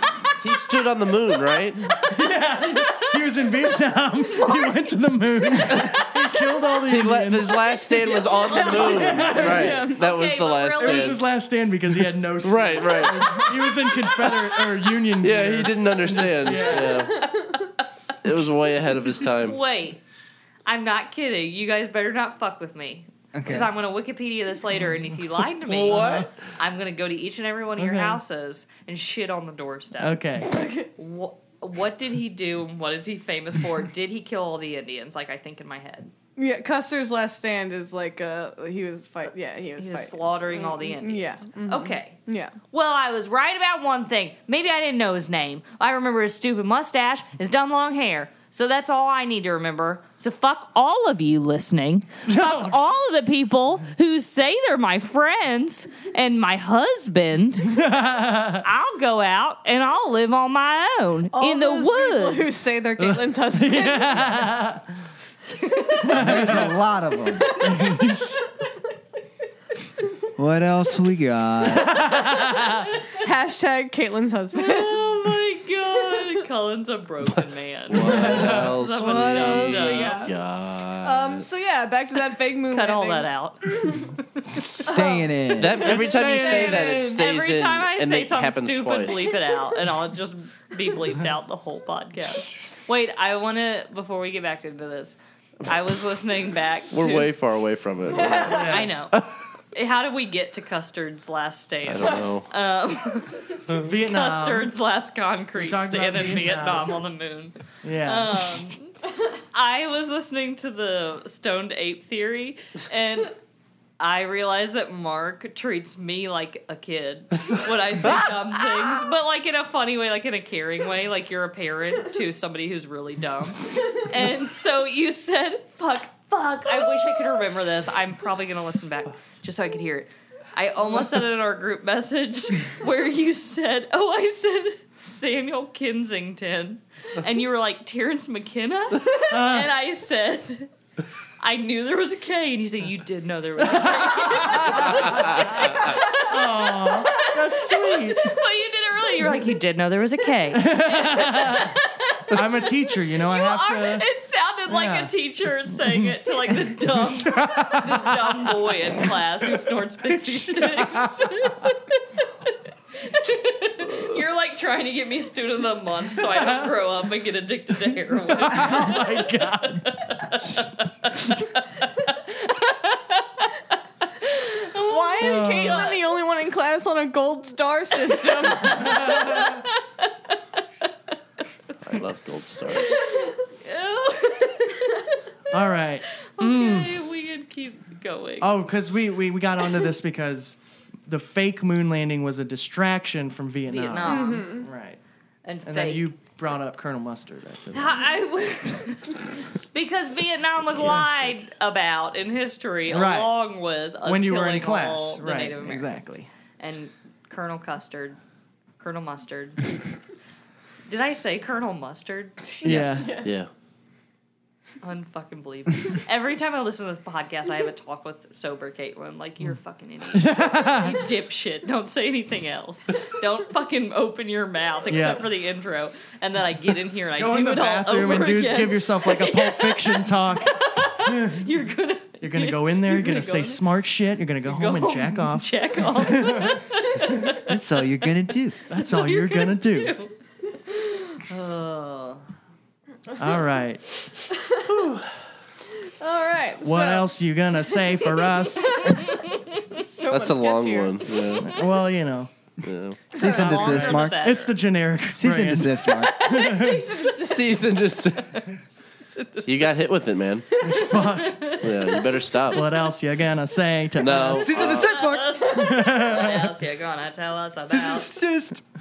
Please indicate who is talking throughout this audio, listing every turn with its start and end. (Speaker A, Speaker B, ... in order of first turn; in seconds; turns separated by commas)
Speaker A: 0.4-1.9, Speaker B: 2.0-7.8, Speaker C: 4.3-4.8, Speaker C: 5.6-6.1, Speaker A: 6.9-11.2, Speaker D: 8.0-10.2, Speaker C: 8.2-11.2, Speaker B: 8.7-9.8, Speaker B: 10.8-17.1, Speaker A: 12.4-13.5, Speaker A: 15.2-17.2, Speaker C: 16.5-17.5, Speaker D: 16.8-17.6, Speaker A: 18.2-19.6, Speaker C: 19.4-20.0, Speaker C: 20.7-30.2, Speaker E: 23.3-23.7, Speaker A: 25.7-26.3, Speaker B: 25.9-26.3, Speaker B: 27.8-28.2, Speaker B: 30.0-30.6, Speaker D: 30.5-30.9, Speaker C: 31.0-36.1, Speaker D: 36.4-42.5, Speaker C: 39.8-42.2, Speaker C: 42.7-57.8, Speaker B: 52.3-52.9, Speaker B: 57.7-58.6, Speaker C: 58.6-62.6, Speaker D: 61.3-64.5, Speaker B: 63.0-64.8, Speaker B: 66.0-66.8, Speaker E: 66.1-67.6, Speaker B: 67.6-68.4, Speaker D: 67.7-68.1, Speaker E: 70.4-72.2, Speaker B: 71.8-72.9, Speaker D: 73.2-75.4, Speaker C: 74.5-80.3, Speaker A: 77.9-81.5, Speaker B: 78.0-78.8, Speaker D: 78.9-80.3, Speaker D: 81.0-84.0, Speaker C: 82.7-84.8, Speaker E: 84.8-85.9, Speaker D: 84.8-87.2, Speaker A: 85.6-89.3, Speaker B: 85.8-87.1, Speaker C: 86.4-97.3, Speaker A: 96.9-99.3, Speaker D: 98.1-98.8, Speaker C: 98.5-99.2, Speaker B: 98.5-98.9, Speaker C: 99.7-108.9, Speaker A: 101.9-102.5, Speaker B: 103.7-104.7, Speaker B: 105.6-107.0, Speaker B: 107.8-108.7, Speaker C: 109.5-113.3, Speaker C: 114.0-140.7, Speaker B: 139.3-139.7, Speaker C: 141.4-176.1, Speaker B: 143.7-148.3, Speaker B: 150.5-151.7, Speaker B: 152.3-154.1, Speaker B: 154.7-155.1, Speaker B: 155.8-158.6, Speaker B: 160.1-161.3, Speaker B: 168.2-169.9, Speaker D: 174.8-179.3, Speaker B: 175.2-175.9, Speaker C: 178.5-180.1, Speaker B: 178.9-179.6, Speaker A: 181.8-183.0, Speaker C: 182.9-185.1, Speaker B: 185.5-187.1, Speaker C: 186.2-188.6, Speaker B: 188.4-195.0, Speaker C: 193.7-194.6, Speaker D: 194.1-194.7, Speaker C: 195.4-196.1, Speaker B: 195.7-198.1, Speaker C: 197.7-206.1, Speaker B: 200.8-201.3, Speaker B: 202.9-203.4, Speaker B: 204.0-206.3, Speaker C: 206.6-208.2, Speaker C: 208.8-209.7, Speaker C: 210.9-212.4, Speaker D: 212.6-213.3, Speaker B: 212.6-213.1, Speaker A: 212.7-213.5, Speaker C: 214.8-233.6, Speaker B: 220.1-221.0, Speaker B: 224.9-225.3, Speaker B: 227.2-231.5, Speaker B: 232.2-236.6, Speaker C: 234.4-237.6, Speaker E: 237.5-238.6, Speaker B: 238.7-240.0, Speaker C: 238.7-240.1, Speaker C: 240.7-242.2, Speaker B: 243.2-244.1, Speaker A: 244.8-245.0, Speaker D: 246.0-247.2, Speaker B: 246.6-249.0, Speaker D: 248.0-251.2, Speaker C: 248.7-249.5, Speaker A: 250.1-251.6, Speaker B: 251.4-252.3, Speaker A: 252.6-253.0, Speaker D: 253.1-253.5, Speaker E: 253.1-254.2, Speaker B: 253.2-256.9, Speaker C: 253.2-254.6, Speaker E: 255.2-256.2, Speaker D: 256.1-257.6, Speaker A: 257.2-258.3, Speaker C: 258.3-259.7, Speaker A: 259.5-260.5, Speaker B: 260.6-261.6, Speaker D: 260.6-261.0, Speaker C: 260.8-261.9, Speaker A: 261.6-262.6, Speaker B: 262.5-264.6, Speaker A: 264.0-264.9, Speaker E: 264.2-265.6, Speaker C: 264.8-268.1, Speaker B: 265.5-266.5, Speaker E: 267.7-268.6